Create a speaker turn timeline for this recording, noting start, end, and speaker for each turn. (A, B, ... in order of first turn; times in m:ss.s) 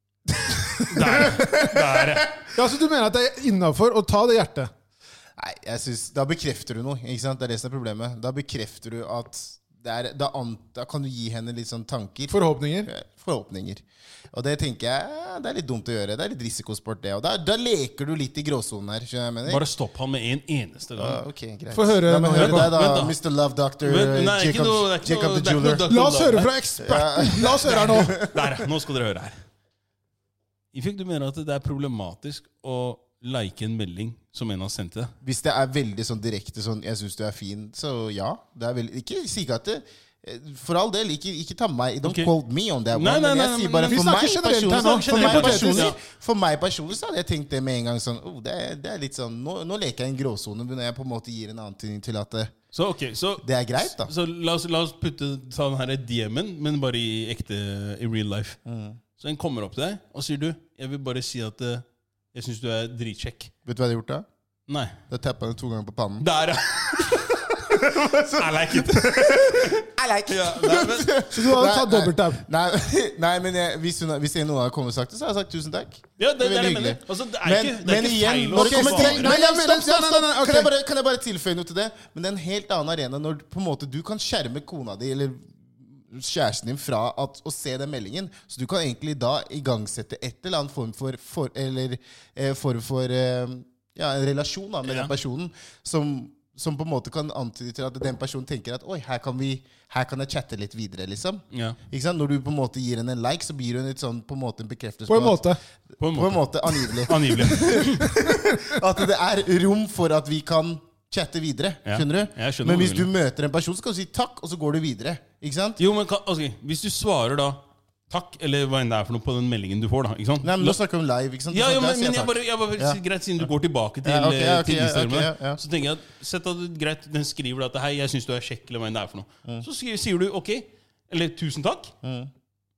0:00.3-0:02.4 A
0:00.9-0:02.3 B
0:02.5-0:04.7 C
0:05.4-0:19.6 A
0:12.3-0:12.9 C
0:19.4-0:21.2 B
0:21.0-0:25.8 A
0:21.7-0:22.8 C
0:22.3-0:23.1 B
0:23.8-0:26.6 B
0:25.9-0:28.2 C
0:26.8-0:28.7 A
0:27.5-0:29.4 B
0:30.7-0:35.1 B
0:35.2-0:52.5 A
0:42.0-0:42.3 B
0:42.9-0:46.0 B
0:43.9-0:45.9 C
0:52.7-0:58.6 B
0:53.4-0:54.1 A
0:58.7-0:59.0 A
0:59.2-1:03.5 B
1:03.7-1:04.3 A
1:04.7-1:05.0 B
1:05.1-1:06.3 A
1:06.2-1:11.2 B
1:06.9-1:45.4 A
1:11.3-1:12.4 C
1:16.2-1:19.3 B
1:18.6-1:20.7 C
1:34.8-1:35.1 B
1:41.5-1:41.8 B
1:45.1-1:45.6 C
1:46.0-1:48.1 B
1:46.1-1:55.8 A
1:48.5-1:48.8 C
1:51.9-1:53.1 B
1:55.8-2:00.8 B
2:00.4-2:03.5 A
2:01.5-2:11.9 B
2:04.0-2:05.6 A
2:12.0-2:12.3 A